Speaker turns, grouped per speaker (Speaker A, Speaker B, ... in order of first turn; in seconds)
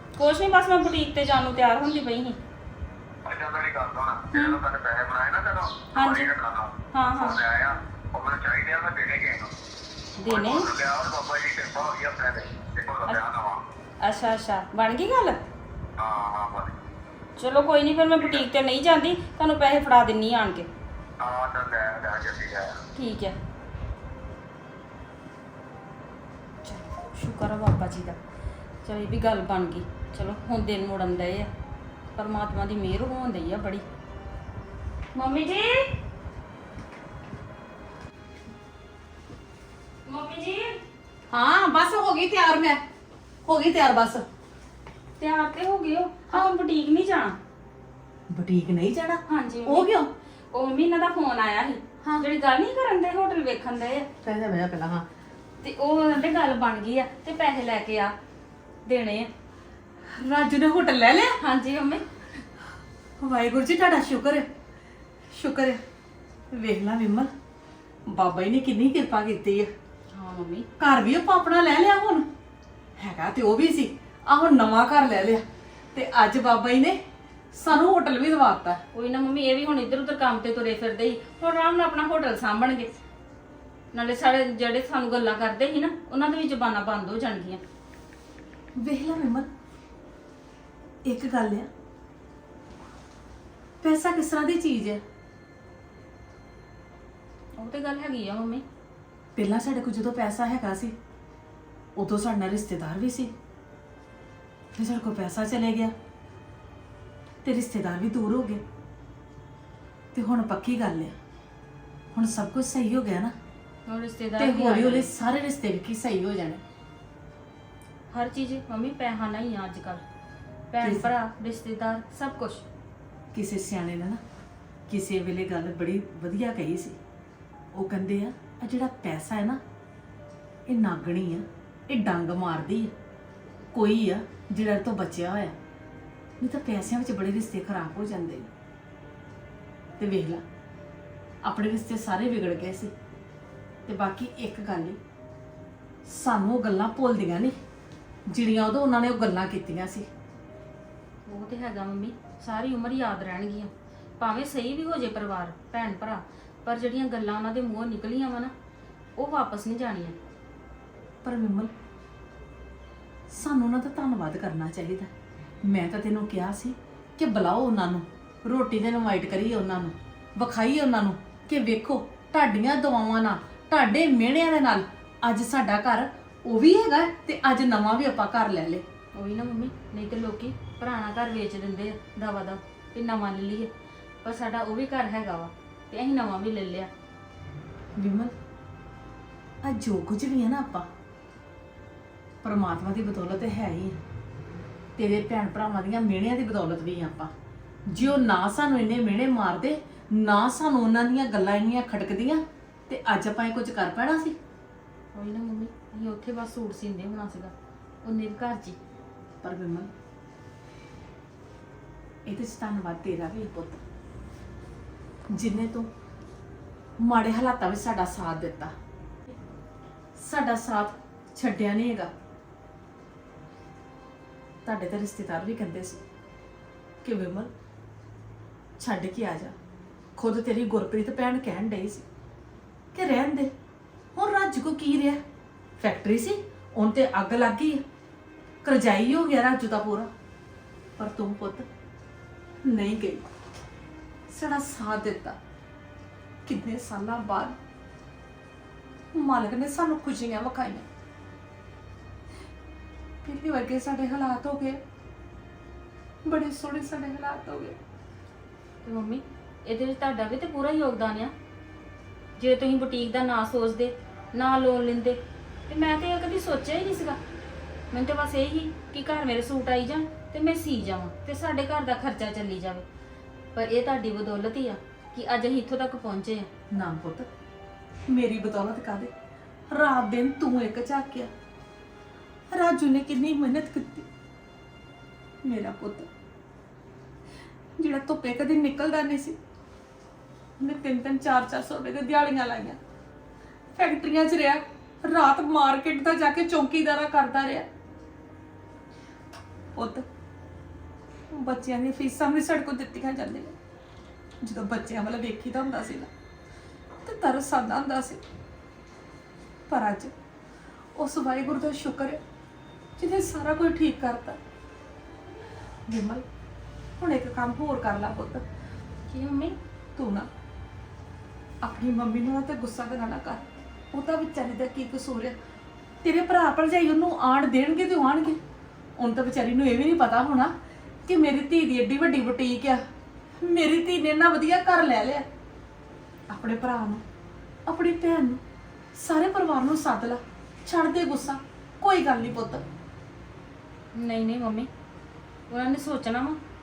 Speaker A: 0.2-2.4, 5.9-6.3, 6.9-7.4, 10.2-10.7, 14.0-15.4, 17.4-20.7, 22.9-23.4, 26.6-28.2, 28.8-31.5, 32.1-33.8, 35.1-35.9, 40.0-40.8, 45.2-47.4, 49.3-49.9, 50.5-54.1, 55.6-58.1, 58.9-59.3, 61.4-62.0, 70.1-70.7, 78.9-82.9, 83.9-87.6, 97.6-98.6, 113.8-115.1, 118.1-120.0, 120.7-122.6, 151.2-158.5, 159.2-160.2, 179.1-183.7, 184.2-186.9, 205.1-207.5, 208.0-208.8, 258.8-261.3, 262.4-267.2, 267.9-272.8, 273.5-276.5, 319.1-319.6, 343.9-344.7, 345.5-346.4
Speaker B: 3.2-9.5, 10.3-13.6, 16.0-16.7, 18.2-18.4, 21.2-22.8
Speaker C: 41.3-42.8, 43.4-44.2, 48.3-50.1, 52.0-52.3, 54.2-55.0, 60.2-61.4, 63.2-64.5, 65.3-65.8, 66.5-67.3, 68.1-69.7, 70.8-72.3, 73.0-75.4, 75.9-77.0, 77.5-78.8, 88.8-89.5, 91.0-91.7, 93.8-95.0, 99.3-100.9, 102.0-103.3, 104.8-105.9, 107.4-108.6, 110.1-111.1, 112.1-113.3, 114.4-116.6, 120.8-121.1, 123.3-124.2, 124.9-127.0, 127.7-129.6, 130.7-132.9, 133.7-135.5, 136.4-138.5, 140.0-140.4, 141.4-142.9, 143.8-145.0, 146.1-147.5, 148.3-150.1, 161.2-161.7, 163.3-165.1, 165.7-178.8, 188.0-188.3, 189.6-190.9, 192.4-194.0, 195.0-197.3, 197.9-204.3, 209.4-209.9, 212.3-213.8, 215.3-215.9, 217.0-218.7, 220.2-222.1, 224.6-226.0, 227.0-227.5, 228.8-229.5, 230.2-232.0, 232.9-233.5, 234.1-235.2, 235.8-237.8, 238.6-240.1, 241.0-241.7, 242.7-243.2, 244.3-245.3, 246.4-247.6, 249.1-250.8, 253.2-254.8, 256.2-257.8, 276.7-277.3, 278.1-279.1, 279.7-281.3, 282.5-284.0, 285.4-286.1, 287.8-289.4, 290.6-292.8, 293.8-297.6, 299.7-300.0, 301.3-303.5, 304.4-306.1, 307.0-308.2, 309.7-310.1, 310.9-312.2, 313.0-314.4, 315.9-316.2, 317.0-318.4, 319.9-320.3, 321.6-323.4, 323.9-325.4, 326.0-328.4, 329.0-330.5, 331.1-332.8, 333.4-335.2, 336.3-337.0, 337.7-338.4, 338.9-342.6